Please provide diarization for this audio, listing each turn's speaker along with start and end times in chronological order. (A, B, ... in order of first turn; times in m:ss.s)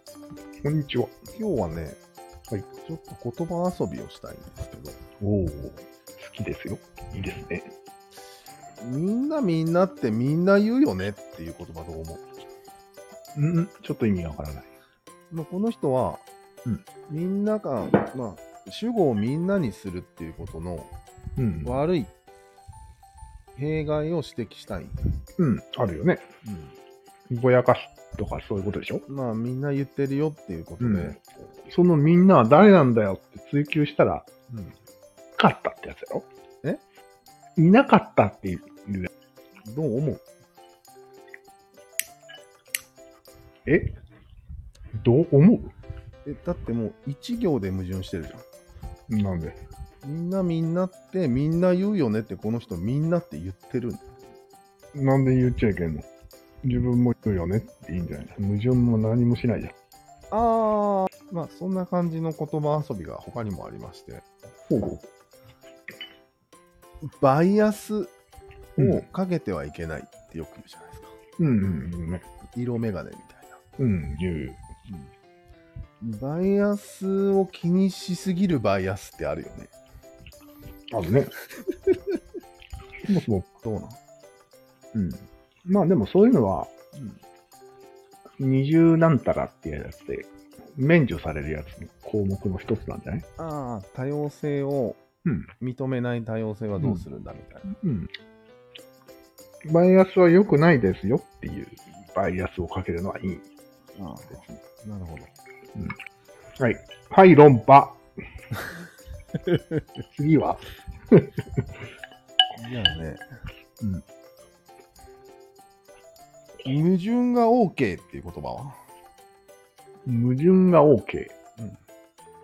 0:00.6-0:01.1 A
0:01.3-0:02.0 B
0:02.8-0:05.0 B
0:05.2-0:07.7 A
0:08.8-0:12.2 B
0:13.3-0:14.7 A
0:15.3-0:16.2 B
0:17.1-0:20.9 B
0:21.4-0:21.8 A
0:21.6-0:22.1 B
0:23.6-0:25.0 B
0:25.4-0:26.2 A
0:26.4-0:26.7 B
0:27.3-0:29.0 A
0:29.1-0:31.2 B
0:30.8-0:34.7 A
0:35.4-0:36.3 A
0:37.6-0:39.1 A
0:39.6-0:40.2 B
0:43.6-0:44.0 A
0:45.0-0:45.7 A
0:46.2-0:48.4 B
0:49.1-0:49.6 A
0:50.0-0:54.0 B
0:54.9-0:56.1 A
0:56.6-0:59.7 A
1:00.3-1:04.2 B
1:04.7-1:05.0 A
1:07.0-1:08.1 B
1:08.8-1:11.2 B
1:08.8-1:09.0 A
1:11.4-1:12.2 A
1:12.5-1:13.6 B
1:13.8-1:14.6 A
1:16.0-1:19.7 B
1:20.9-1:21.3 A
1:23.0-1:23.5 A
1:23.6-1:24.0 B
1:24.9-1:26.7 A
1:28.4-1:33.2 A
1:33.4-1:35.0 B
1:35.2-1:35.5 A
1:35.6-1:37.7 B
1:37.7-1:38.1 A
1:39.7-1:43.4 A
1:44.0-1:45.3 B
1:46.6-1:48.0 A
1:50.1-1:51.4 A
1:52.6-1:53.2 B
1:56.6-1:58.8 B
2:00.0-2:01.3 A